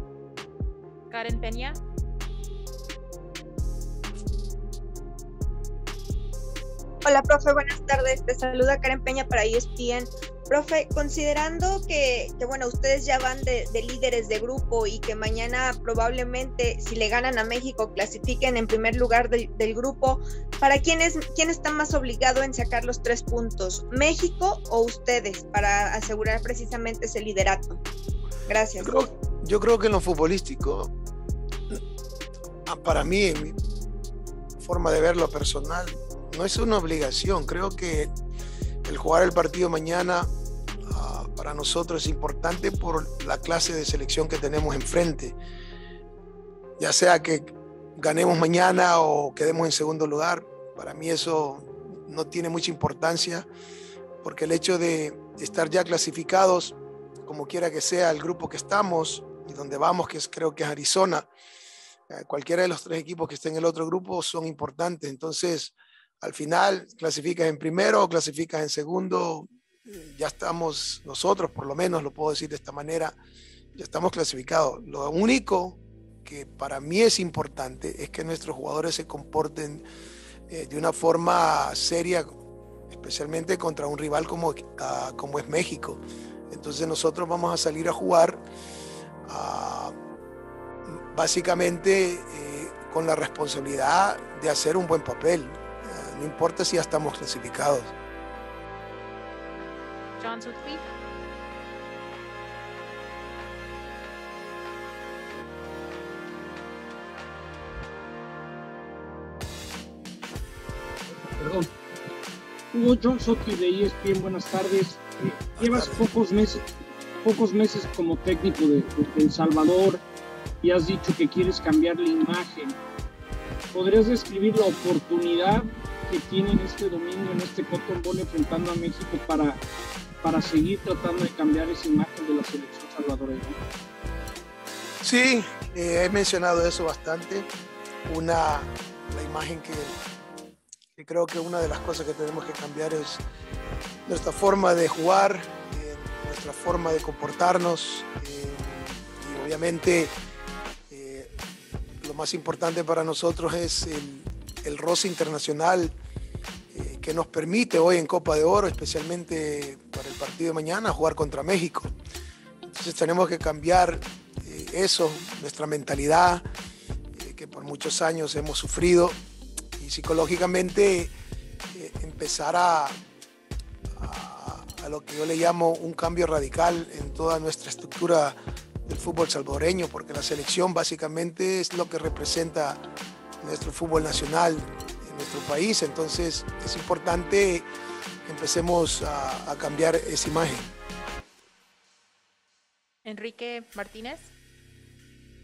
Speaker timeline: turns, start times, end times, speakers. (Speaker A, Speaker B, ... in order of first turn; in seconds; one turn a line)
Speaker A: 1.1-1.8
Speaker B: 7.0-27.8
Speaker B: 28.5-29.0
Speaker C: 28.8-30.9
Speaker C: 32.7-33.5
Speaker C: 34.6-38.1
Speaker C: 38.8-40.3
Speaker C: 40.9-45.4
Speaker C: 46.8-53.5
Speaker C: 54.2-61.3
Speaker C: 62.1-73.2
Speaker C: 73.8-79.8
Speaker C: 80.5-82.3
Speaker C: 82.9-88.4
Speaker C: 89.3-89.9
Speaker C: 91.1-97.9
Speaker A: 100.2-100.9
Speaker D: 111.3-111.7
Speaker D: 112.7-116.7
Speaker C: 115.6-116.0
Speaker D: 117.2-120.0
Speaker D: 120.6-122.8
Speaker D: 123.7-129.6
Speaker D: 130.2-133.6
Speaker C: 135.0-137.5
Speaker C: 138.1-139.9
Speaker C: 140.9-143.2
Speaker C: 144.1-150.1
Speaker C: 150.9-151.4
Speaker C: 152.0-155.9
Speaker C: 156.7-161.9
Speaker C: 162.7-166.4
Speaker C: 167.1-169.2
Speaker C: 169.8-171.1
Speaker C: 171.7-173.0
Speaker C: 173.9-182.8
Speaker C: 183.4-187.7
Speaker C: 188.2-190.7
Speaker A: 193.0-194.3